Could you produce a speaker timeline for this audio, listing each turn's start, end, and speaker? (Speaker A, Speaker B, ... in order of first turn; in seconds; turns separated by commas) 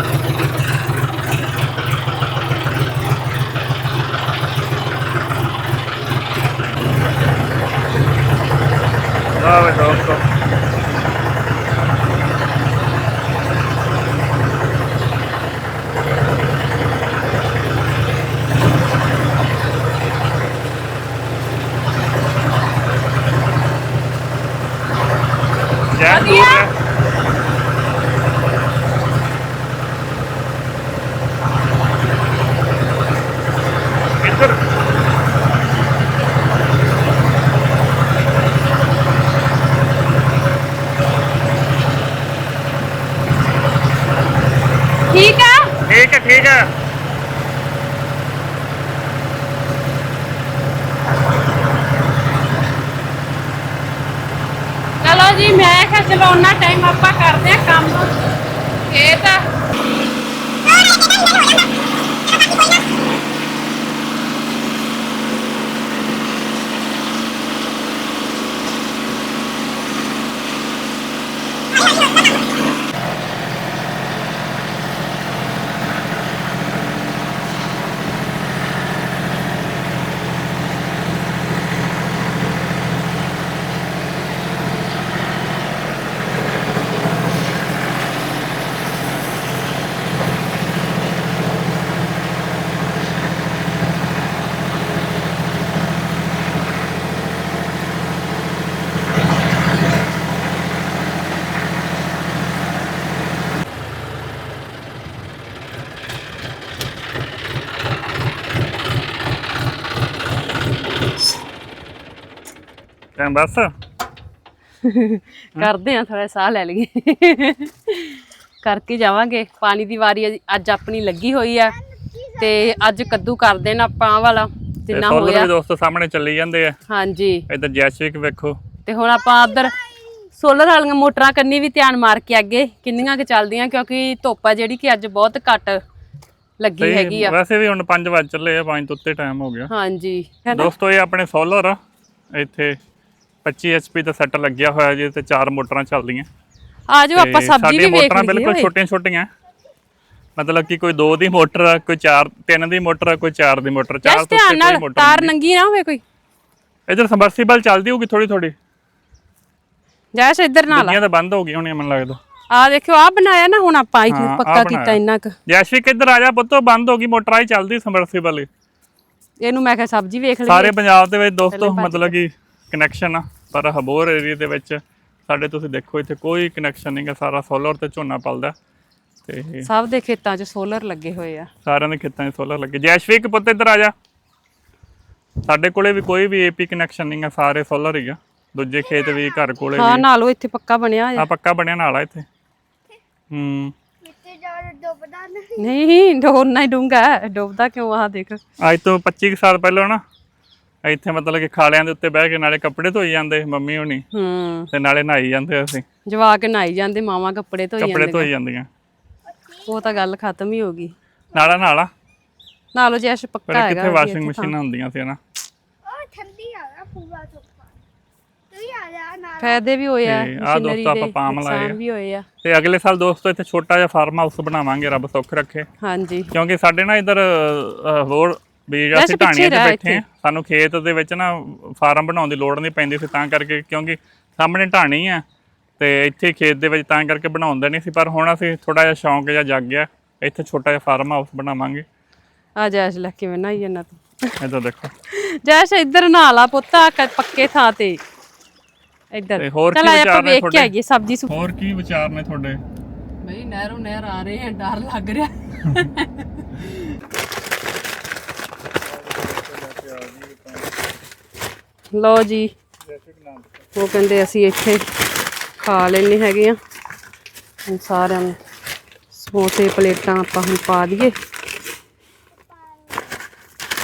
Speaker A: 9.4-10.2, Speaker A: 25.9-26.7, Speaker B: 26.1-26.6, Speaker A: 34.2-34.6, Speaker B: 45.1-45.7, Speaker A: 45.9-46.6, Speaker B: 55.0-58.1, Speaker B: 58.9-59.5, Speaker A: 113.2-113.7, Speaker B: 114.8-121.8, Speaker B: 122.4-125.5, Speaker A: 124.9-126.8, Speaker B: 126.9-127.5, Speaker A: 127.5-128.6, Speaker B: 128.8-135.8, Speaker B: 136.6-137.3, Speaker A: 136.8-139.7, Speaker B: 139.7-140.7, Speaker A: 140.5-141.8, Speaker A: 142.3-142.8, Speaker A: 143.4-146.3, Speaker B: 146.9-148.7, Speaker A: 147.2-149.3, Speaker A: 150.4-155.3, Speaker B: 154.0-156.0, Speaker A: 156.9-158.5, Speaker B: 160.1-161.0, Speaker A: 160.7-162.2, Speaker B: 162.5-165.3, Speaker A: 164.1-168.5, Speaker B: 169.4-170.7, Speaker A: 170.4-178.5, Speaker B: 171.5-172.2, Speaker A: 179.2-179.7, Speaker B: 179.6-181.5, Speaker A: 181.6-183.9, Speaker A: 185.4-190.0, Speaker B: 189.8-191.2, Speaker A: 191.2-192.2, Speaker A: 193.3-193.7, Speaker C: 194.0-195.6, Speaker B: 195.6-198.4, Speaker A: 198.6-200.0, Speaker A: 200.8-204.0, Speaker B: 204.1-204.7, Speaker A: 204.7-205.8, Speaker B: 206.1-208.3, Speaker A: 207.8-208.7, Speaker B: 209.7-210.9, Speaker A: 211.3-211.9, Speaker B: 212.7-214.5, Speaker A: 213.5-215.2, Speaker C: 215.8-217.6, Speaker C: 218.5-219.4, Speaker B: 219.4-222.2, Speaker A: 220.0-221.8, Speaker A: 222.4-225.7, Speaker B: 225.8-226.3, Speaker A: 226.3-235.2, Speaker B: 228.9-230.0, Speaker A: 235.8-241.8, Speaker B: 242.6-244.4, Speaker A: 244.4-244.9, Speaker B: 245.1-248.0, Speaker B: 249.1-251.3, Speaker A: 249.4-250.7, Speaker A: 251.3-252.6, Speaker B: 253.2-256.8, Speaker A: 259.0-260.7, Speaker B: 261.9-262.5, Speaker A: 262.9-263.5, Speaker B: 263.8-264.8, Speaker B: 265.6-266.6, Speaker B: 267.7-268.4, Speaker B: 269.1-271.1